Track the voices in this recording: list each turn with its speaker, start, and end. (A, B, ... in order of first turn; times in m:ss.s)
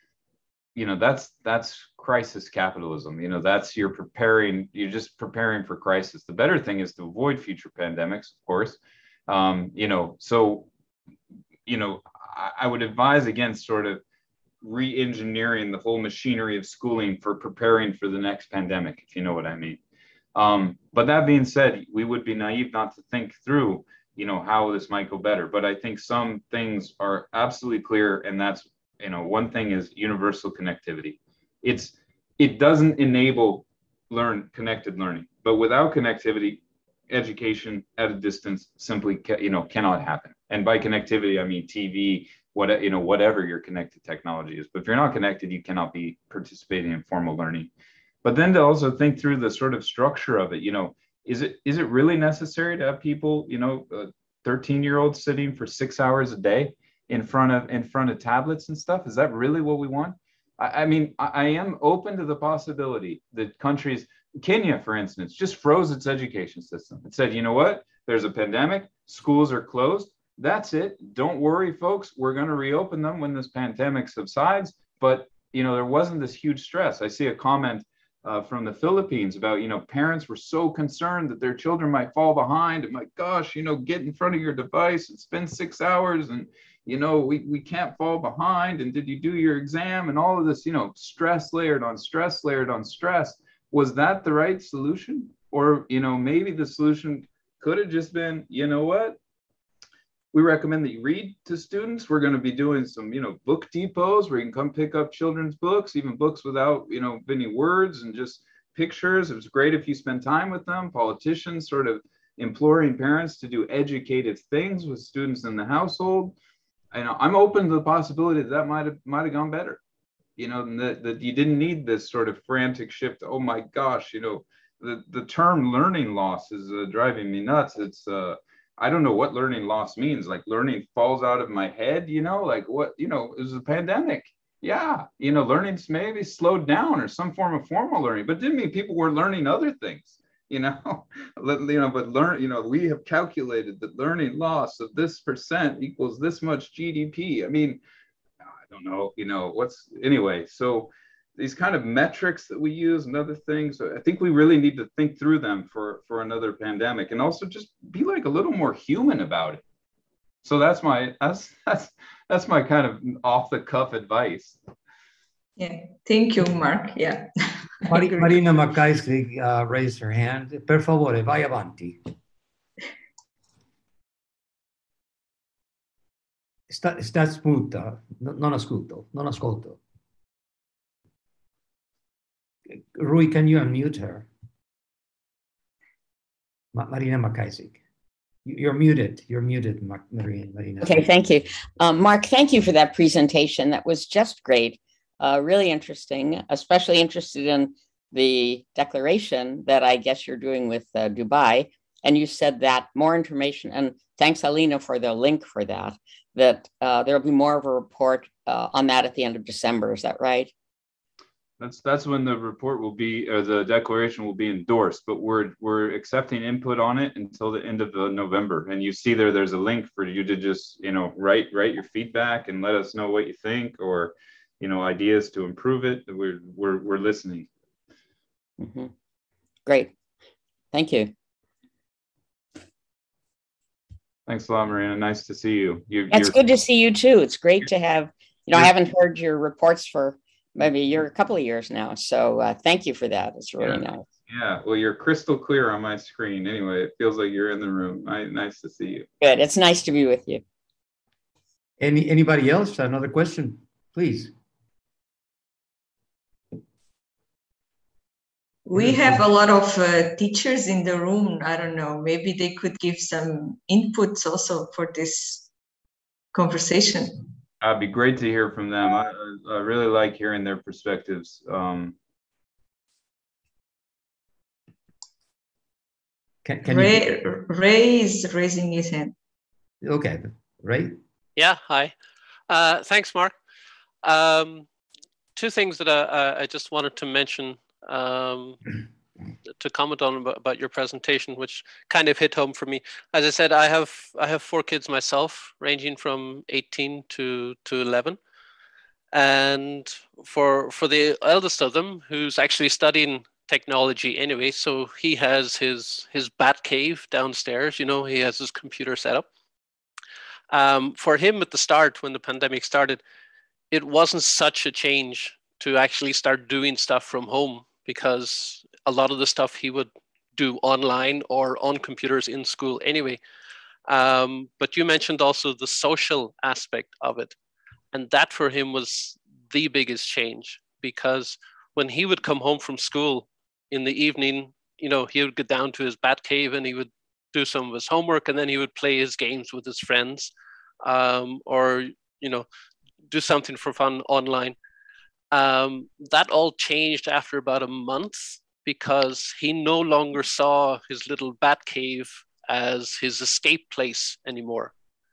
0:00.7-0:10.7 A
0:11.6-0:14.0 A
0:14.6-0:19.8 A
0:20.3-0:47.7 A
0:48.2-1:39.2 A
1:40.3-1:56.3 A
1:56.9-1:59.8 A
2:00.4-2:27.8 A
2:28.7-2:39.6 A
2:40.4-2:44.6 A
2:45.6-2:47.3 B
2:47.8-2:48.3 B
2:47.9-2:52.0 C
2:56.7-2:59.8 C
3:02.7-3:04.3 C
3:06.7-3:07.8 C
3:08.4-3:11.0 C
3:10.8-3:30.5 D
3:31.6-3:47.5 A
3:48.6-3:48.9 D
3:49.6-3:49.9 D
3:50.7-3:51.1 D
3:54.3-3:56.4 A
3:56.1-4:04.0 D
4:03.6-4:09.0 A
4:09.2-4:10.4 D
4:11.8-4:14.3 C
4:18.6-4:25.5 B
4:18.7-4:19.2 C
4:26.3-4:27.2 B
4:27.6-4:31.9 A
4:36.4-4:37.2 C
4:36.6-4:39.1 B
4:39.8-4:41.0 C
4:41.4-4:41.9 E
4:42.5-4:43.3 E
4:44.0-4:44.6 E
4:45.4-4:48.6 E
4:49.6-4:58.2 E
4:59.1-5:09.2 E
5:10.5-5:13.0 E
5:13.7-5:23.2 E
5:23.9-5:27.3 E
5:27.9-5:40.3 E
5:40.8-5:42.4 E
5:43.1-5:44.6 E
5:45.3-5:54.7 E